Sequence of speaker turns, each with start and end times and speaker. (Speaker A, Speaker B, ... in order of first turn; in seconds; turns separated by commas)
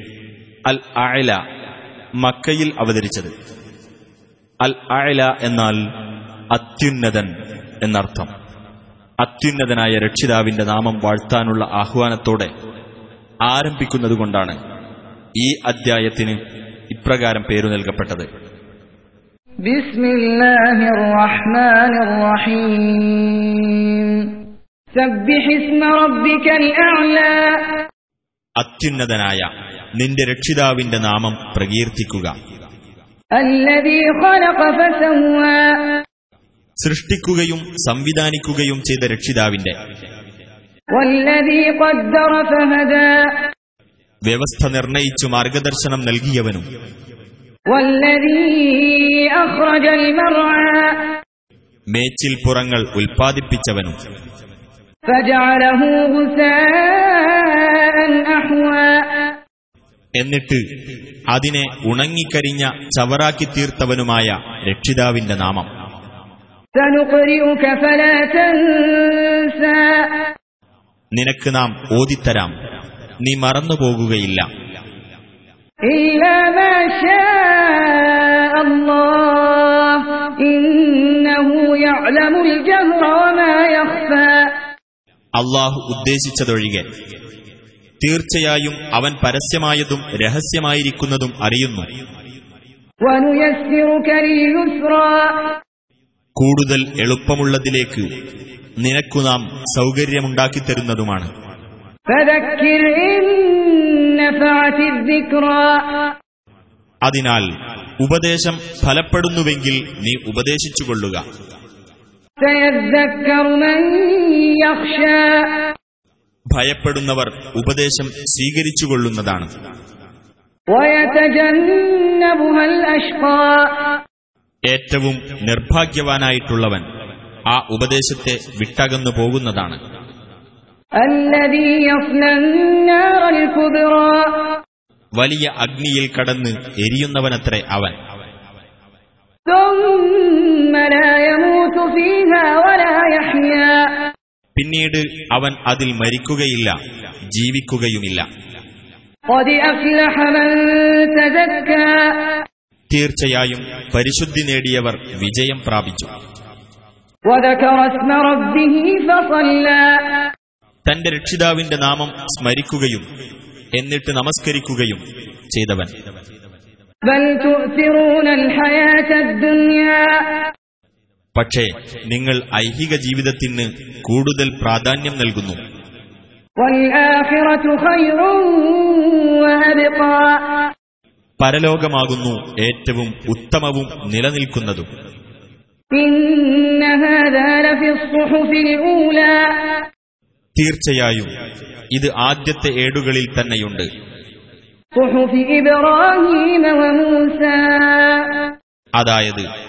Speaker A: 0.7-1.4, Speaker A: 2.2-3.3, Speaker A: 4.6-5.8, Speaker A: 6.5-7.3, Speaker A: 7.8-8.3, Speaker A: 9.2-12.5, Speaker A: 13.5-14.6, Speaker A: 15.4-16.4, Speaker A: 16.9-18.3, Speaker B: 19.6-27.8, Speaker A: 28.6-32.3, Speaker B: 33.4-36.0, Speaker A: 36.8-39.7, Speaker B: 40.9-43.5, Speaker A: 44.3-46.6, Speaker B: 47.7-51.1, Speaker A: 51.9-54.0, Speaker B: 55.1-59.3, Speaker A: 60.2-60.6, Speaker A: 61.3-65.7, Speaker B: 66.8-70.3, Speaker A: 71.1-72.5, Speaker A: 73.2-74.5, Speaker B: 75.9-84.5, Speaker A: 85.4-86.9, Speaker A: 88.0-91.9, Speaker B: 93.0-95.6, Speaker A: 96.4-98.0, Speaker A: 98.8-101.3, Speaker B: 102.1-106.1, Speaker A: 107.1-107.5, Speaker A: 108.0-111.2, Speaker B: 112.4-115.7, Speaker A: 116.5-119.5, Speaker B: 120.7-124.0, Speaker A: 124.7-126.8, Speaker A: 127.5-129.8, Speaker B: 131.0-134.6, Speaker A: 135.2-137.9, Speaker B: 139.5-144.1, Speaker A: 144.6-146.8, Speaker A: 147.3-148.2, Speaker B: 149.3-152.4, Speaker A: 152.9-156.1, Speaker B: 157.3-160.3, Speaker A: 160.9-163.0, Speaker A: 163.8-165.9, Speaker B: 167.1-170.5, Speaker A: 171.4-175.6, Speaker B: 176.6-180.7, Speaker A: 181.4-184.9, Speaker B: 185.9-189.8, Speaker A: 190.6-191.3, Speaker A: 191.9-193.9, Speaker B: 195.0-198.5, Speaker A: 199.0-199.5